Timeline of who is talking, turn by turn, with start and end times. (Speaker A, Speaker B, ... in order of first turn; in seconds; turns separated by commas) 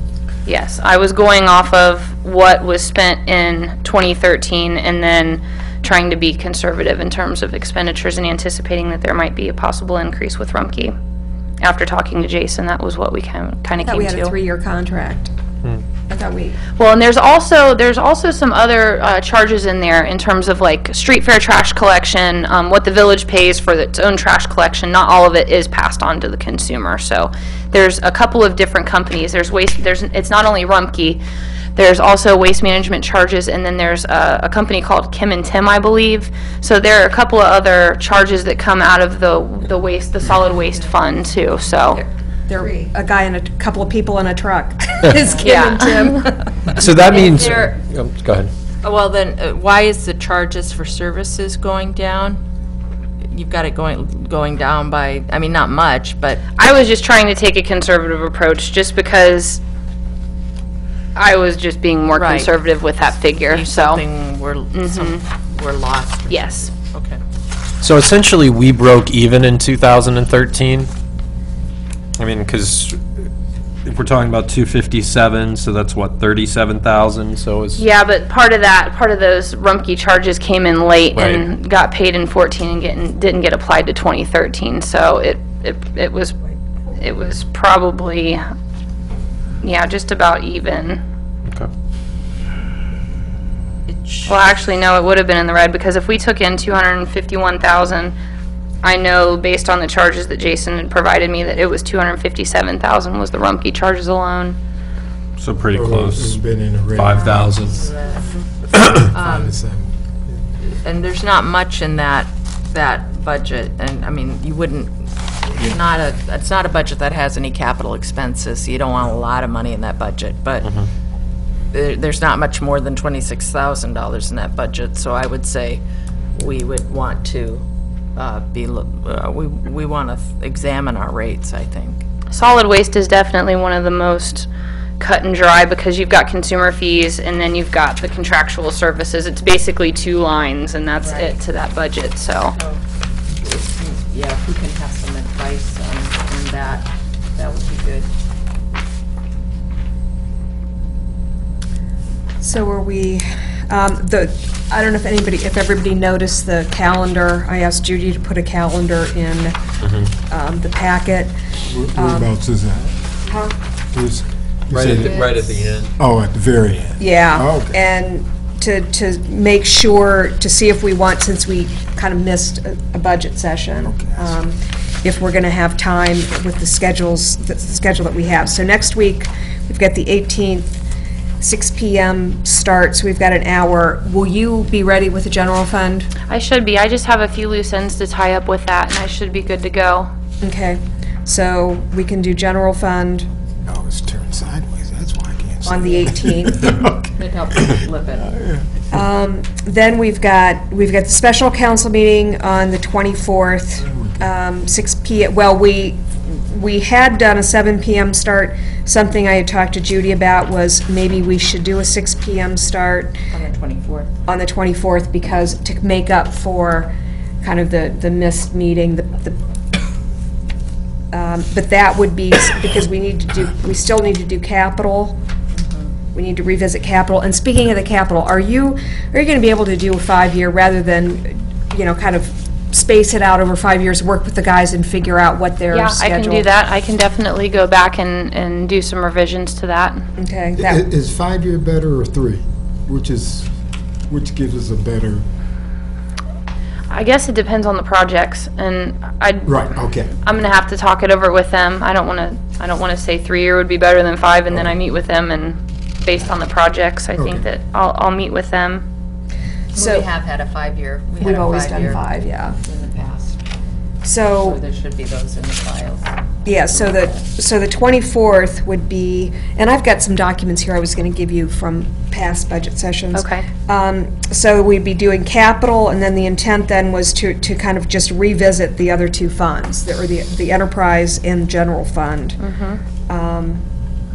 Speaker A: 0.5-10.9, Speaker A: 11.6-14.3, Speaker B: 13.8-15.3, Speaker B: 16.1-16.6, Speaker A: 16.8-31.2, Speaker A: 31.7-42.0, Speaker B: 41.9-46.7, Speaker A: 45.4-46.2, Speaker C: 46.7-48.5, Speaker D: 46.8-47.8, Speaker D: 48.8-52.4, Speaker D: 53.3-56.4, Speaker A: 56.5-59.6, Speaker A: 61.1-64.0, Speaker D: 62.1-62.5, Speaker D: 63.5-67.2, Speaker A: 64.7-65.2, Speaker A: 66.3-66.7, Speaker C: 67.8-70.9, Speaker C: 72.2-73.0, Speaker C: 73.8-77.8, Speaker A: 77.8-86.3, Speaker C: 81.1-81.5, Speaker A: 87.0-88.4, Speaker A: 89.6-91.0, Speaker D: 93.9-94.4, Speaker A: 94.2-98.1, Speaker A: 98.8-104.6, Speaker C: 105.4-106.4, Speaker E: 105.7-107.5, Speaker C: 106.9-107.8, Speaker D: 107.2-108.3, Speaker E: 108.8-110.3, Speaker D: 109.1-109.6, Speaker D: 110.7-120.7, Speaker C: 120.6-120.9, Speaker D: 121.7-125.8, Speaker D: 126.3-127.6, Speaker D: 128.2-132.0, Speaker A: 132.3-134.5, Speaker A: 135.0-142.6, Speaker D: 141.0-141.4, Speaker D: 142.5-142.8, Speaker D: 143.4-148.1, Speaker B: 152.4-159.6, Speaker C: 159.8-160.1, Speaker B: 160.1-161.3, Speaker E: 161.7-163.0, Speaker B: 161.9-162.3, Speaker B: 163.2-163.5, Speaker E: 163.9-165.3, Speaker C: 164.7-165.9, Speaker E: 166.0-167.8, Speaker B: 167.0-180.8, Speaker E: 173.8-174.4, Speaker B: 181.4-186.1, Speaker A: 186.3-190.1, Speaker B: 190.4-193.3, Speaker E: 193.7-199.0, Speaker B: 195.6-196.7, Speaker D: 195.8-196.1, Speaker D: 197.2-198.4, Speaker B: 198.9-213.2, Speaker E: 203.8-204.3, Speaker D: 213.3-214.1, Speaker B: 214.2-219.4, Speaker B: 221.1-225.2, Speaker D: 225.6-225.9, Speaker B: 226.1-236.4, Speaker A: 235.7-240.0, Speaker B: 240.2-240.8, Speaker E: 240.6-243.5, Speaker E: 244.1-245.3, Speaker A: 246.9-249.7, Speaker E: 249.4-250.1, Speaker A: 250.2-258.8, Speaker D: 259.7-263.4, Speaker B: 259.8-260.1, Speaker B: 261.2-262.6, Speaker B: 264.0-264.6, Speaker D: 264.4-266.1, Speaker B: 266.4-282.4, Speaker D: 266.7-267.2, Speaker A: 273.1-273.5, Speaker A: 282.4-282.8, Speaker B: 283.1-283.6